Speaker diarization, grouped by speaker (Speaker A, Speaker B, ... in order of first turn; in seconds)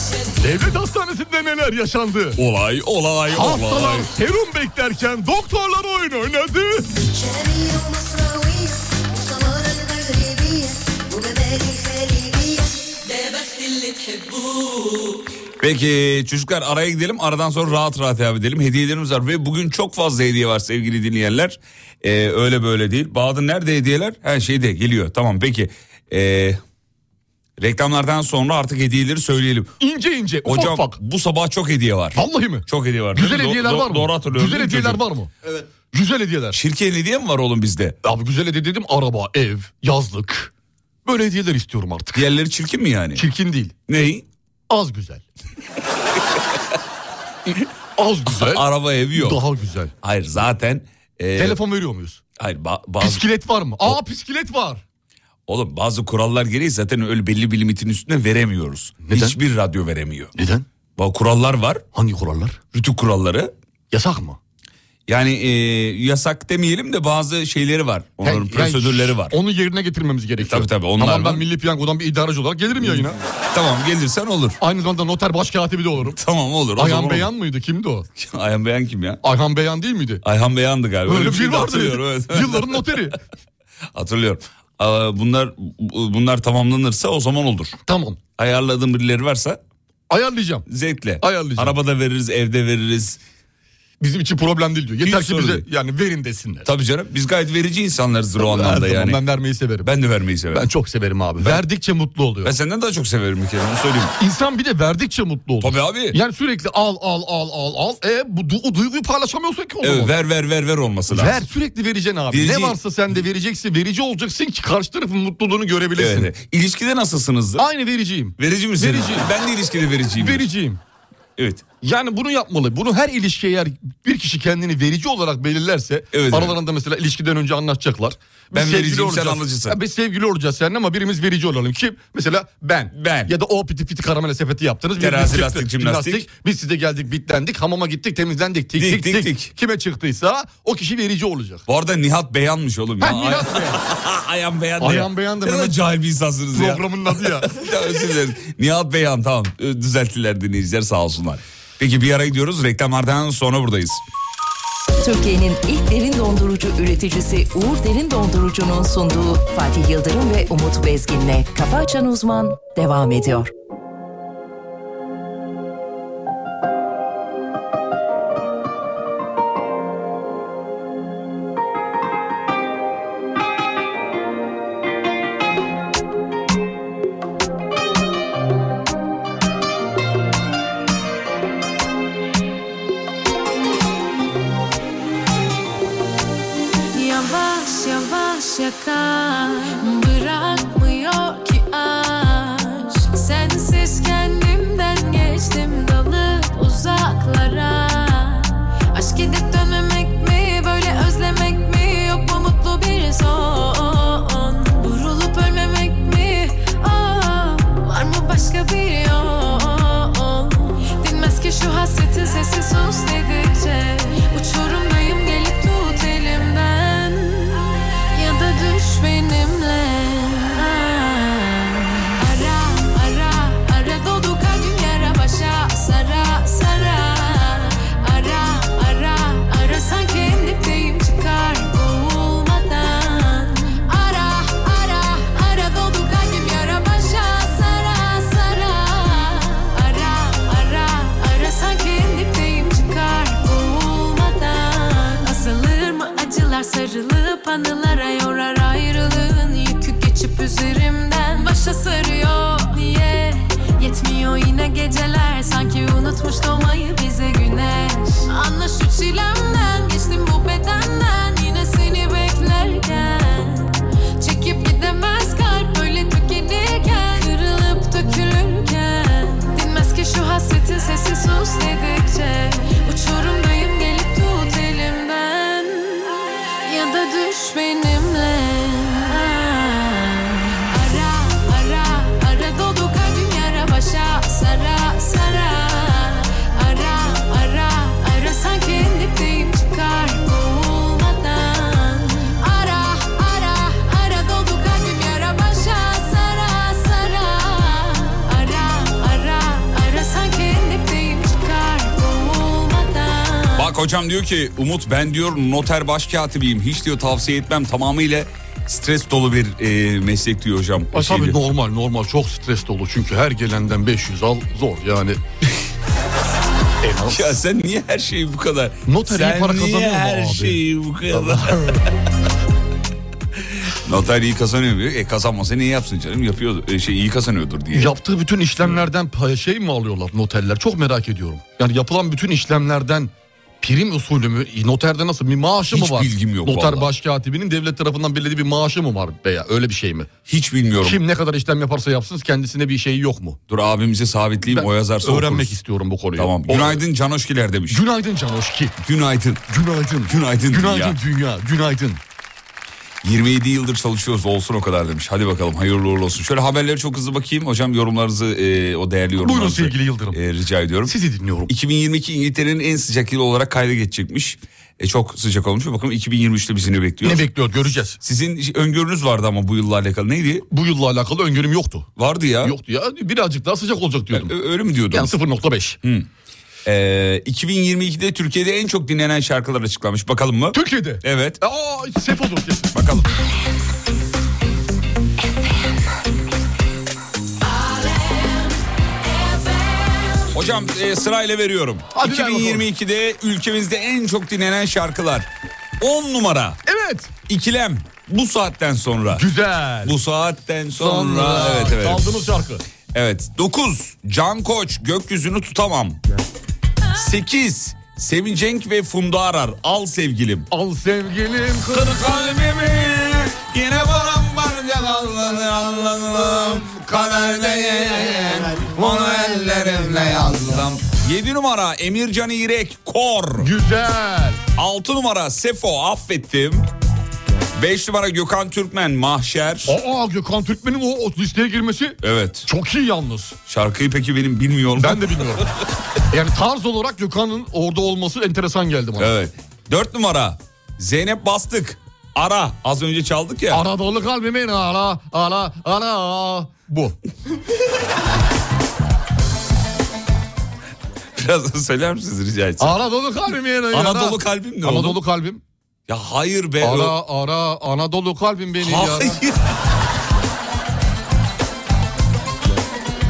Speaker A: 0.3-2.4, 3.3-6.9, 29.8-31.0, 32.1-36.6, 38.0-40.5, 41.0-42.2, 43.1-43.8, 44.7-45.2, 47.5-48.6, 49.1-49.9, 51.4-52.2, 53.0-54.8, 59.0-59.4, 60.4-60.6, 61.9-62.6, 63.9-64.4, 68.2-73.2, 74.6-76.2, 76.8-78.0, 79.2-80.2, 81.0-83.2, 87.8-88.2, 90.1-90.7, 91.2-91.7, 94.0-96.7, 98.4-99.9, 100.5-102.5, 104.2-110.1, 111.1-116.3, 117.6-119.3, 120.2-120.8, 121.8-141.6, 143.0-143.8, 144.8-145.8, 146.5-147.5, 310.9-315.2, 316.8-317.4, 318.9-321.8, 327.7-340.1, 340.8-343.4, 344.5-346.8, 347.7-348.7, 349.5-352.0, 359.2-360.2, 360.9-361.5, 367.0-368.0, 370.5-371.9, 372.4-374.3, 374.9-375.8, 380.5-382.7, 391.9-392.6, 396.6-397.1, 399.1-399.9, 400.8-402.6, 410.5-412.1, 418.7-420.6, 423.4-424.4, 429.6-433.4, 434.8-435.4, 436.1-439.1, 443.5-446.9, 452.6-455.4, 456.6-459.2
Speaker B: 2.4-4.1, 15.6-26.6, 27.6-29.7, 30.4-35.0, 36.5-38.0, 42.1-43.2, 43.9-44.2, 48.3-49.4, 50.0-51.6, 52.4-53.2, 55.5-60.3, 61.0-61.8, 62.7-63.5, 65.1-69.3, 70.4-71.4, 72.8-74.6, 76.0-77.3, 78.1-79.2, 80.2-83.1, 83.9-87.8, 88.4-89.6, 90.7-93.2, 95.0-95.6, 96.6-99.2, 99.8-100.7, 102.4-104.1, 105.6-106.2, 109.8-111.4, 112.3-112.8, 116.0-117.6, 118.4-120.5, 121.4-121.7, 126.1-126.6, 128.5-129.8, 132.9-133.3, 135.0-136.2, 138.8-139.5, 141.7-154.0, 303.6-311.4, 317.1-321.9, 323.6-327.9, 335.7-336.9, 340.3-341.0, 343.5-345.6, 346.1-347.8, 348.8-349.4, 350.1-351.0, 353.0-360.9, 361.5-367.2, 368.0-370.4, 372.0-372.6, 374.1-375.1, 376.6-381.4, 382.7-383.1, 390.3-395.3, 395.8-396.6, 397.2-399.2, 399.8-402.1, 402.9-406.0, 406.9-410.5, 411.7-423.5, 424.6-426.7, 427.5-429.8, 432.0-432.5, 433.5-435.4, 439.0-443.6, 451.1-452.8, 453.7-455.0, 455.9-456.9, 458.6-459.5
Speaker C: 7.0-12.9
Speaker D: 155.0-163.5
Speaker E: 186.9-303.7